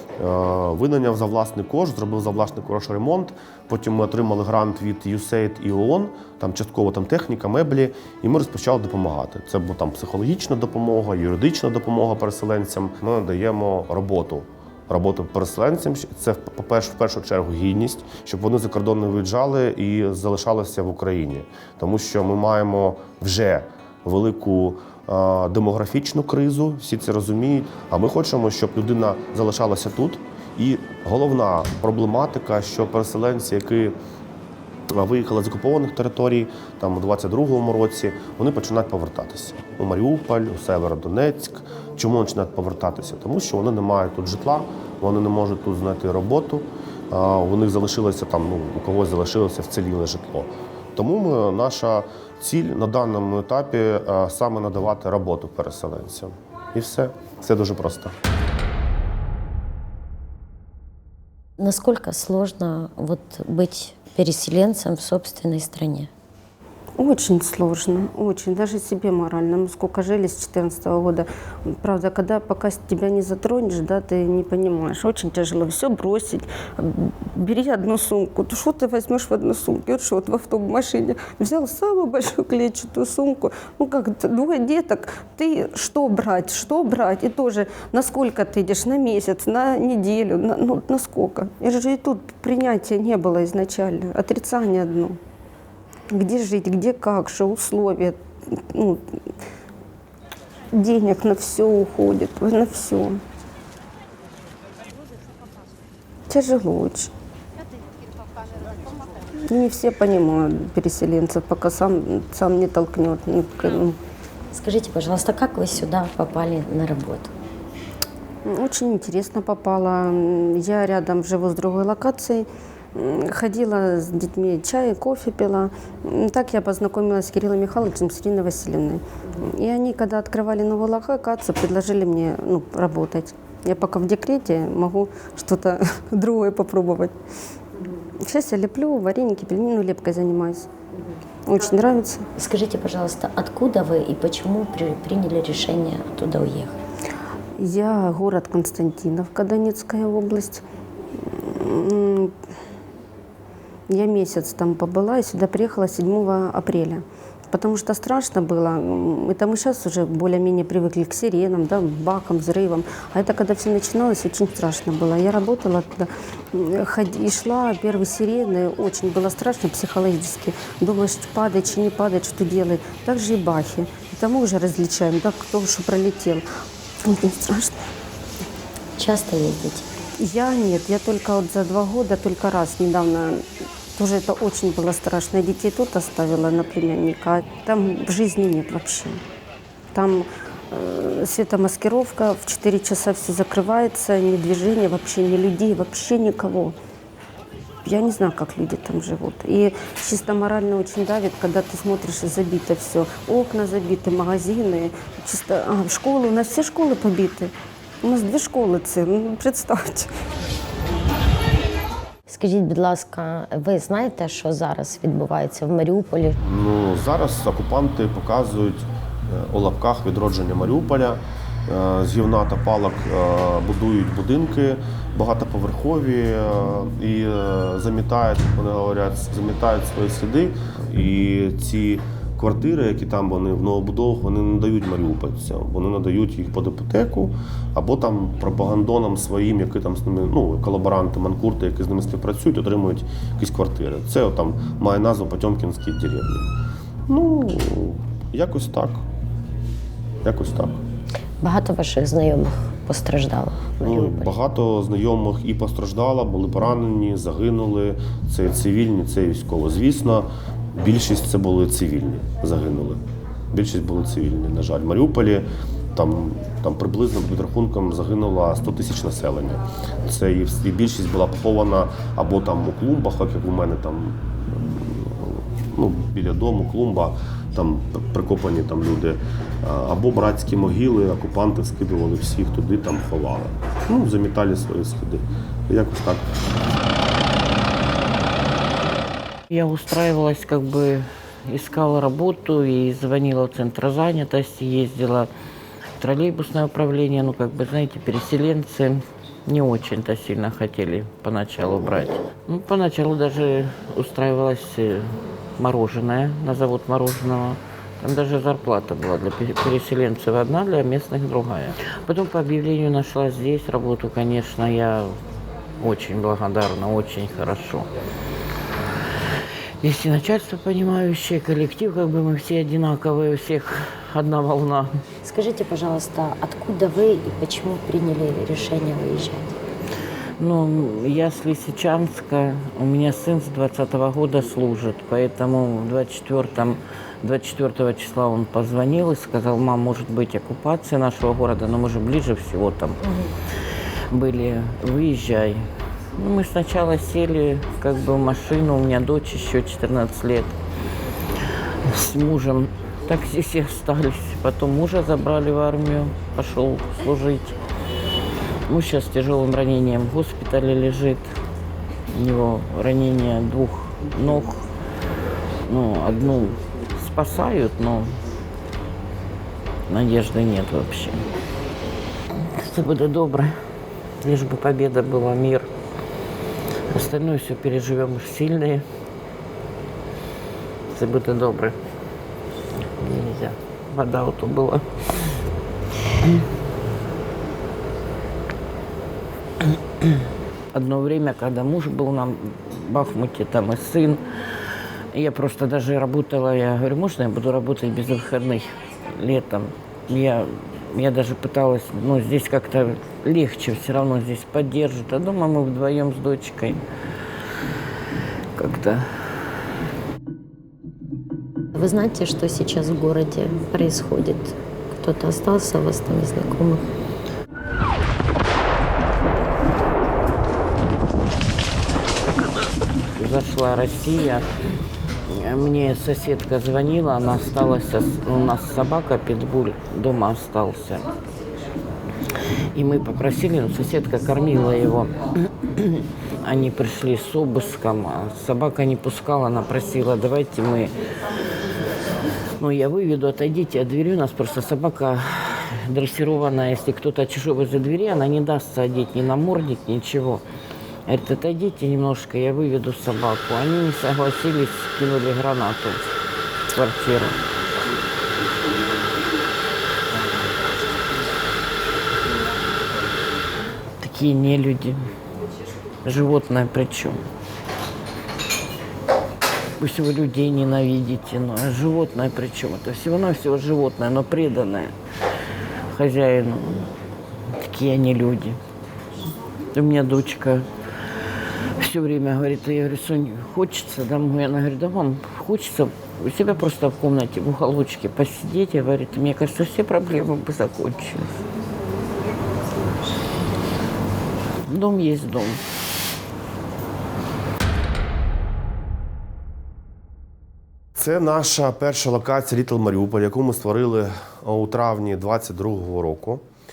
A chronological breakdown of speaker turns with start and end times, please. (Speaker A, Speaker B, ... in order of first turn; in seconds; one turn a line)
Speaker A: 0.2-34.0
Speaker A: 34.9-58.1
Speaker B: 61.6-66.1
Speaker C: 67.0-95.2
Speaker C: 96.1-99.2
Speaker C: 100.7-103.2
Speaker C: 106.3-107.1
Speaker C: 109.5-114.0
Speaker B: 114.5-117.3
Speaker C: 118.4-137.2
Speaker C: 138.2-140.7
Speaker C: 141.5-142.3
Speaker B: 142.4-146.8
Speaker C: 147.6-150.6
Speaker C: 151.2-152.4
Speaker C: 153.9-176.4
Speaker C: 177.0-177.9
Speaker B: 179.0-179.9
Speaker C: 180.2-189.2
Speaker C: 189.9-196.8
Speaker C: 197.8-210.1
Speaker B: 212.3-216.3
Speaker A: 216.4-246.5
Speaker A: 247.1-249.1
Speaker A: 250.2-250.8
Speaker B: 251.4-254.3
Speaker A: 253.8-286.2
Speaker D: 289.5-295.3
Speaker D: 296.0-315.2
Speaker D: 315.8-317.9
Speaker D: 319.8-324.9
Speaker B: 325.2-329.5
Speaker D: 330.4-343.0
Speaker B: 343.1-343.3
Speaker D: 344.1-350.6
Speaker D: 351.8-357.6
Speaker D: 358.7-361.3
Speaker D: 362.1-364.6
Speaker D: 365.6-368.1
Speaker D: 369.9-371.2
Speaker D: 372.4-373.6
Speaker D: 374.2-375.7
Speaker D: 376.9-378.9
Speaker D: 380.9-381.8
Speaker D: 382.8-385.4
Speaker D: 389.6-390.2
Speaker D: 390.7-394.2
Speaker D: 395.1-406.8
Speaker D: 408.6-409.1
Speaker B: 411.8-416.9
Speaker D: 423.2-424.4
Speaker D: 425.3-431.1
Speaker D: 432.7-435.1
Speaker D: 435.7-440.9
Speaker D: 442.6-450.4
Speaker D: 451.1-456.0
Speaker D: 456.7-457.4
Speaker D: 464.0-465.0
Speaker D: 466.0-467.3
Speaker D: 469.8-474.9
Speaker D: 475.9-476.9
Speaker D: 477.6-478.6
Speaker D: 479.7-480.6
Speaker D: 481.8-491.4
Speaker D: 494.6-495.6
Speaker A: 501.0-506.4